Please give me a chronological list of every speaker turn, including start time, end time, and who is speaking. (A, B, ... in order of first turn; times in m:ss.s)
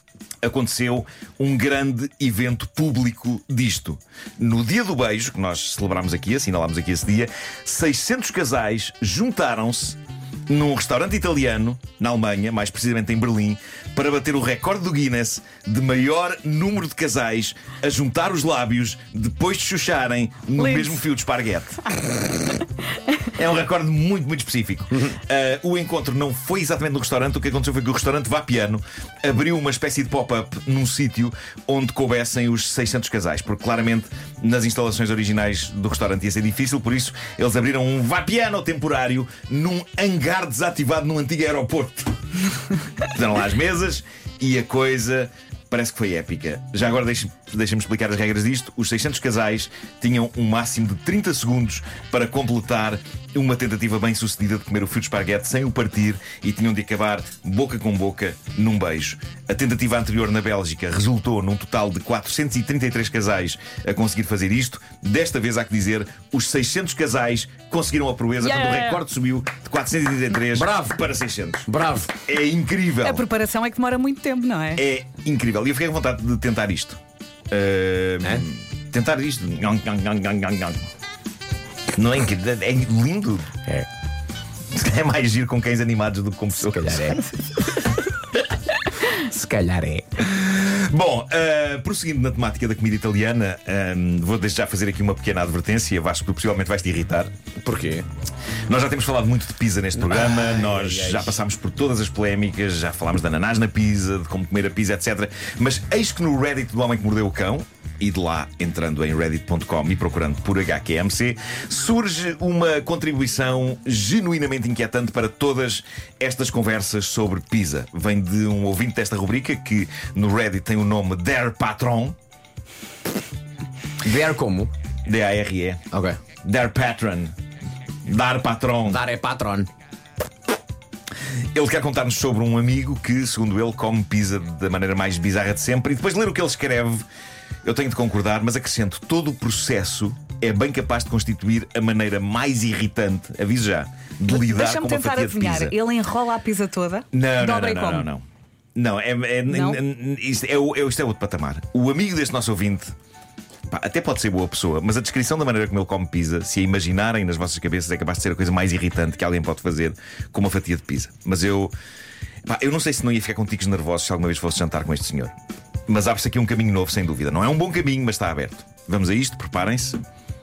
0:00.4-0:10.0 A
0:10.5-0:21.9 A
0:20.6-0:21.0 B
0:23.3-0:42.2 A
0:43.1-1:13.2 A
1:08.4-1:09.0 B
1:10.5-1:11.0 C
1:11.7-1:12.1 C
1:13.0-1:14.8 B
1:14.8-1:17.0 A
1:17.5-1:20.8 A
1:22.0-1:23.6 A
1:24.7-1:27.3 A
1:26.6-1:27.3 C
1:29.0-1:30.2 C
1:30.2-1:37.3 A
1:37.6-1:38.0 C
1:38.7-2:02.2 A
1:40.0-1:41.4 C
2:04.0-2:04.7 C
2:05.0-2:05.8 A
2:05.9-2:06.2 C
2:06.4-2:07.3 A
2:08.1-2:09.0 A
2:08.9-2:09.7 C
2:11.5-2:17.0 A
2:17.6-2:25.8 A
2:24.3-2:28.1 B
2:27.1-2:28.2 A
2:28.8-2:32.9 A
2:29.5-2:29.8 B
2:33.7-2:41.7 A
2:42.4-2:45.3 A
2:45.9-2:50.0 A